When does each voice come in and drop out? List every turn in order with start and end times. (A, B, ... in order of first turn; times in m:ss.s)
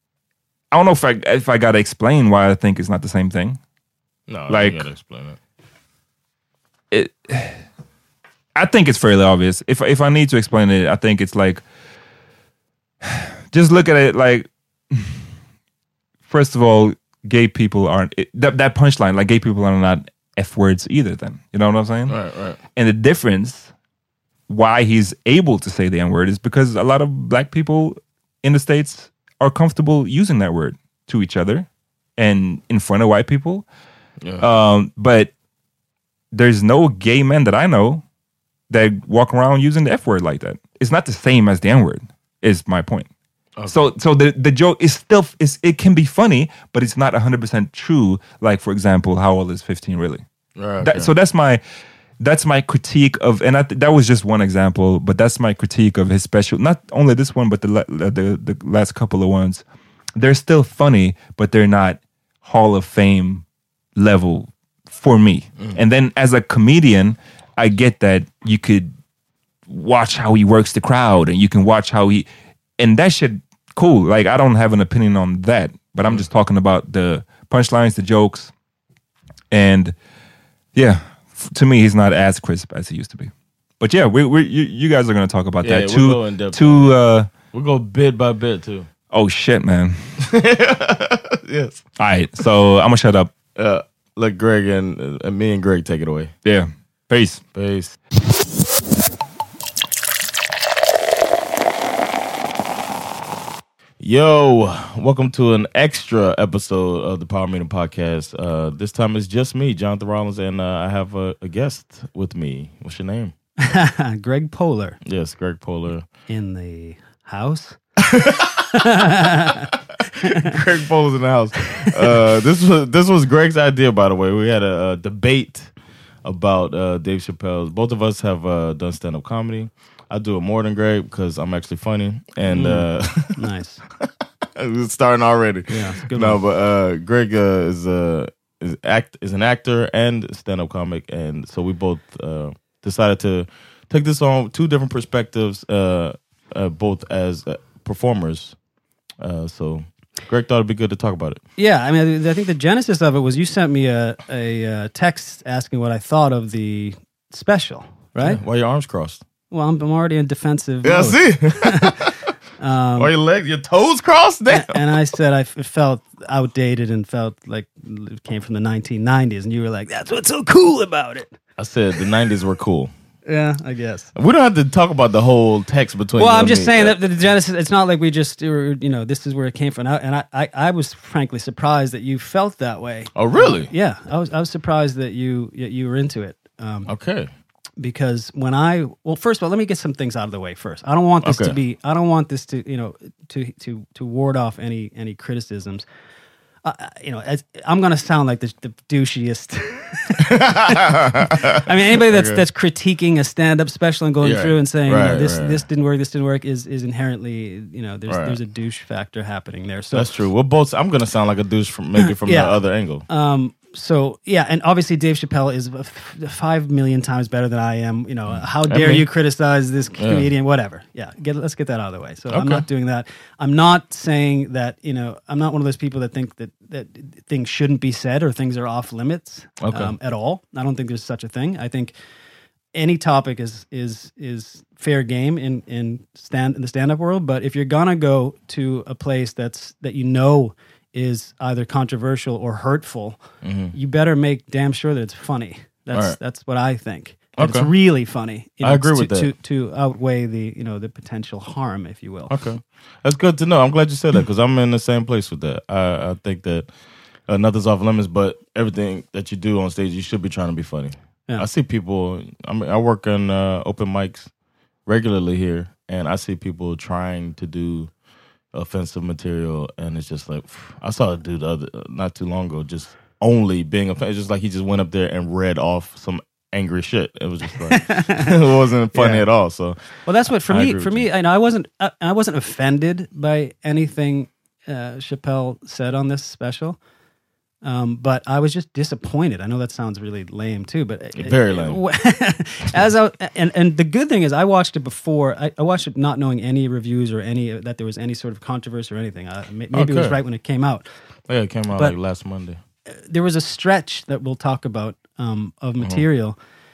0:00.7-0:03.6 A
0:04.3-0:05.4 B
0:04.5-0:04.8 A
0:06.9-0:07.6 A
0:08.5-0:11.6 A
0:13.0-0:15.2 A
0:16.3-0:22.2 A
0:22.1-0:22.6 B
0:22.7-0:23.7 A
0:24.5-0:33.6 A
0:34.4-0:35.3 A
0:36.3-0:38.0 A
0:38.7-0:43.1 A
0:43.7-0:50.2 A
0:50.6-0:51.1 B
0:50.8-0:51.6 A
0:52.2-0:59.6 A
1:00.2-1:03.4 A
1:04.0-1:08.9 A
1:09.7-1:18.5 A
1:19.5-1:19.9 A
1:20.7-1:27.3 A
1:25.6-1:26.9 B
1:27.5-1:28.9 B
1:29.1-1:30.0 A
1:30.2-1:31.8 B
1:32.0-1:33.3 A
1:33.5-1:36.3 B
1:36.4-1:37.4 A
1:37.5-1:38.0 B
1:44.0-1:53.3 B
1:53.6-1:55.0 C
1:55.0-1:56.0 B
1:56.3-1:57.8 C
1:58.1-1:58.9 B
1:58.7-1:59.7 C
2:00.2-2:05.7 B
2:00.2-2:00.5 C
2:06.2-2:13.4 B
2:12.5-2:13.8 C
2:14.0-2:28.5 B
2:15.7-2:16.4 C
2:29.2-2:31.4 B
2:31.6-2:38.4 C
2:38.2-2:39.2 B
2:39.5-2:42.0 C
2:40.8-2:42.1 B
2:42.6-2:43.1 C
2:43.0-2:44.9 B
2:44.5-2:51.3 C
2:51.6-2:52.9 B
2:53.2-2:54.1 C
2:54.1-2:57.0 B
2:56.2-3:06.9 C
3:03.1-3:03.7 B
3:06.9-3:07.3 B
3:07.8-3:15.8 C
3:11.2-3:11.6 B
3:16.6-3:30.1 C
3:20.2-3:22.4 B
3:24.2-3:25.6 B
3:28.1-3:28.4 B
3:29.9-3:33.0 B
3:32.0-3:32.6 C
3:33.1-3:51.9 C
3:38.3-3:39.1 B
3:40.0-3:40.3 B
3:42.3-3:42.6 B
3:49.6-3:49.9 B
3:52.7-4:03.2 C
4:03.4-4:03.7 B
4:03.7-4:12.3 C
4:07.4-4:07.7 B
4:08.6-4:09.3 B
4:12.3-4:16.7 B
4:17.3-4:24.3 B
4:24.8-4:27.9 B
4:28.5-4:39.8 B
4:37.7-4:38.3 C
4:38.9-4:39.2 C
4:40.0-4:46.8 C
4:40.5-4:41.1 B
4:47.6-5:00.8 C
4:51.2-4:51.8 B
4:59.7-5:00.2 B
5:01.3-5:02.6 B
5:02.9-5:06.4 C